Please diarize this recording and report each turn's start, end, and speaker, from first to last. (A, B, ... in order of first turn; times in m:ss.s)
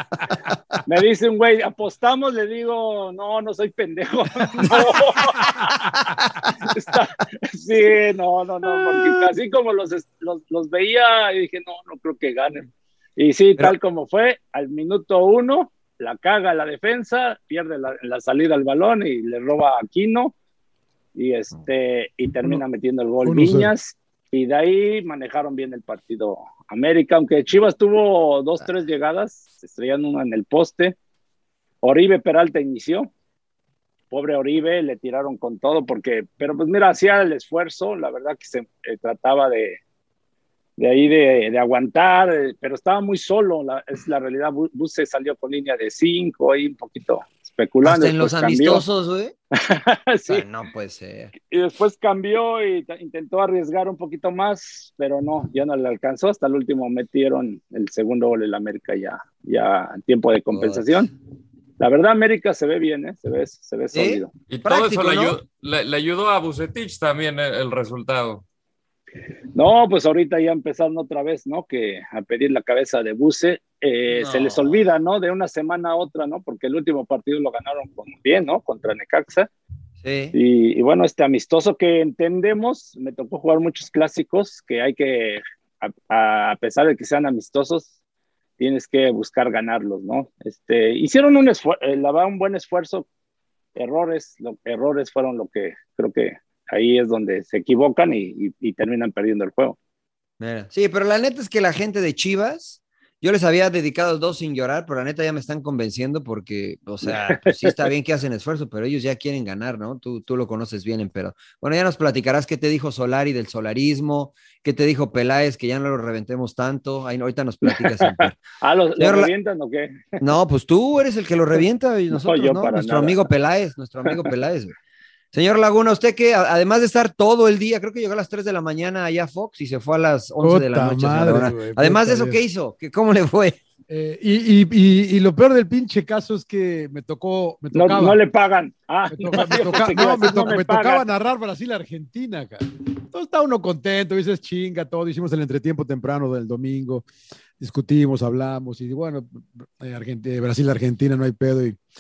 0:00.9-0:05.9 A
0:05.8-0:06.5 B
0:06.6-0:20.4 A
0:21.2-0:31.0 A
0:23.2-0:23.7 C
0:31.8-0:33.1 A
0:34.1-0:39.8 A
0:40.8-0:48.8 A
0:47.8-0:49.3 B
0:49.6-0:50.4 A
0:50.3-0:51.3 B
0:51.5-1:01.1 A
1:00.5-1:01.1 B
1:01.8-1:04.3 A
1:03.9-1:05.4 B
1:04.5-1:08.4 D
1:09.6-1:19.5 A
1:14.1-1:14.8 B
1:20.0-1:20.4 B
1:20.3-1:27.9 A
1:28.6-1:33.1 A
1:33.8-1:39.8 A
1:40.4-1:58.4 B
1:47.0-1:47.8 A
1:57.6-2:00.1 A
1:59.0-1:59.3 B
2:00.2-2:04.7 B
2:02.1-2:03.3 A
2:05.3-2:13.6 B
2:10.4-2:12.4 C
2:13.9-2:18.2 C
2:17.7-2:21.0 A
2:19.1-2:27.1 C
2:27.6-2:31.8 C